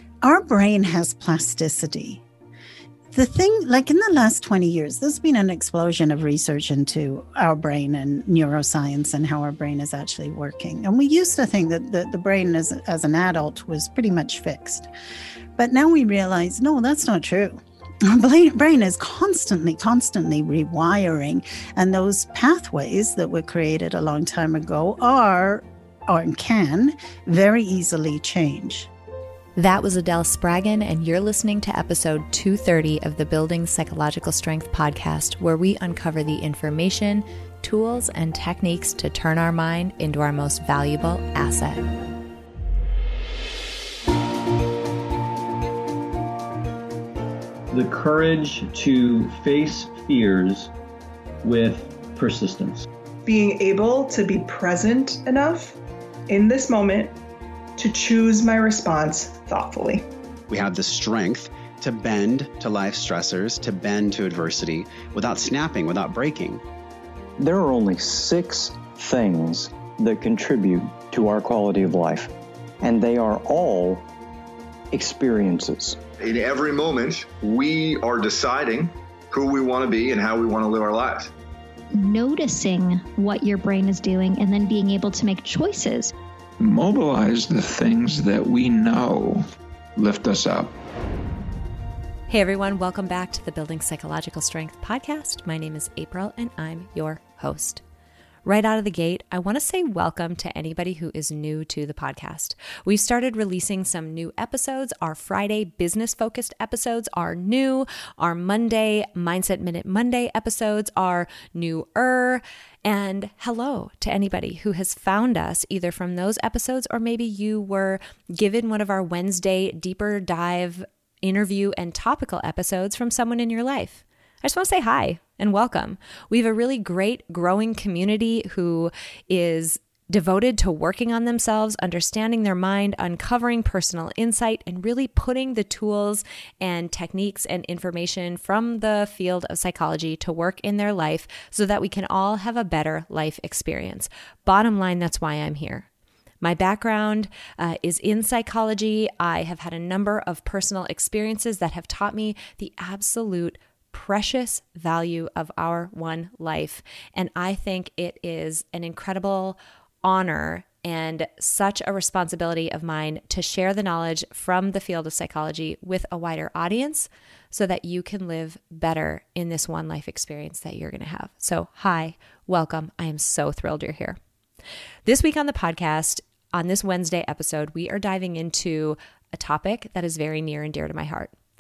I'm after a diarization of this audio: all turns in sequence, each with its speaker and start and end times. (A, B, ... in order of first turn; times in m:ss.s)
0:00.2-0:02.2 A
0:03.1-0:14.9 A
0:15.6-0:28.9 A
0:29.6-0:41.9 B
0:47.7-0:50.7 C
0:51.4-0:52.8 C
0:53.2-0:55.8 D
0:56.3-0:57.2 D
0:57.8-1:00.1 D
1:00.5-1:06.6 E
1:07.4-1:14.0 F
1:14.9-1:16.0 F
1:16.2-1:21.3 G
1:21.9-1:26.1 H
1:26.6-1:30.7 I
1:32.3-1:37.8 B
1:38.4-2:25.9 B
2:26.4-2:54.2 B
2:55.1-3:01.3 B